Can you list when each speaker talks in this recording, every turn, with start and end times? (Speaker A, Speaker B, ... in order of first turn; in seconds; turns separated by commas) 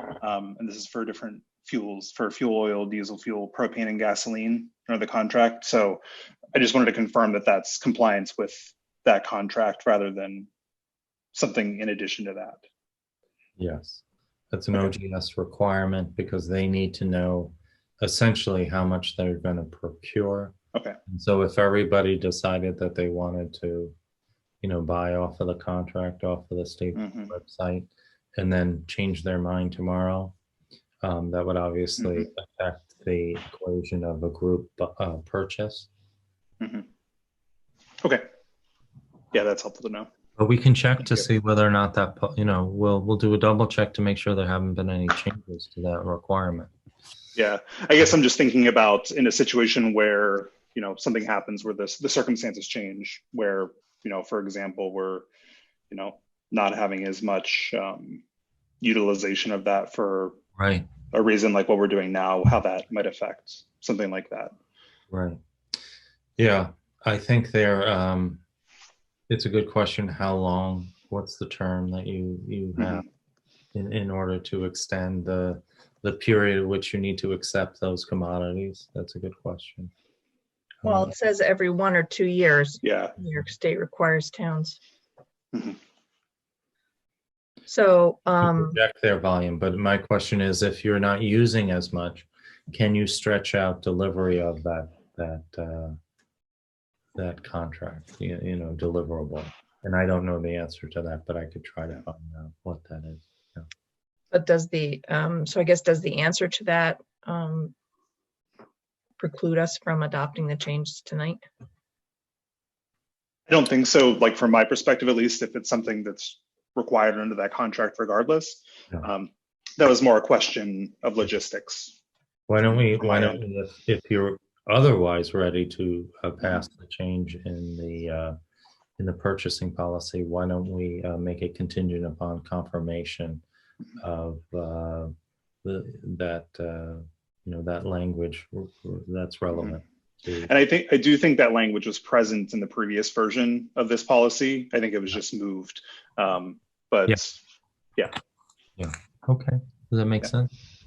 Speaker A: 0.2-6.0, Speaker A: 6.5-10.5, Speaker A: 11.3-12.6, Speaker B: 13.6-20.5, Speaker B: 21.1-23.9, Speaker B: 24.6-30.3, Speaker A: 26.9-27.3, Speaker B: 31.0-35.9, Speaker A: 32.0-32.2, Speaker A: 36.6-36.9, Speaker A: 39.3-40.1, Speaker B: 40.4-46.7, Speaker A: 47.3-55.2, Speaker A: 55.9-58.2, Speaker A: 58.8-60.4, Speaker B: 60.5-60.9, Speaker A: 61.1-64.5, Speaker B: 65.1-65.4, Speaker B: 66.4-68.4, Speaker B: 69.3-73.0, Speaker A: 72.8-73.0, Speaker B: 73.7-79.9, Speaker B: 80.8-81.1, Speaker C: 80.8-84.8, Speaker A: 82.8-83.1, Speaker C: 87.7-88.8, Speaker B: 88.4-96.0, Speaker B: 97.2-103.7, Speaker C: 104.3-107.7, Speaker C: 109.2-111.4, Speaker A: 113.5-121.9, Speaker B: 122.5-128.3, Speaker A: 123.0-123.4, Speaker B: 129.0-133.4, Speaker B: 134.0-135.1, Speaker B: 135.6-140.5, Speaker A: 139.5-139.8, Speaker A: 140.4-147.4, Speaker B: 148.8-150.5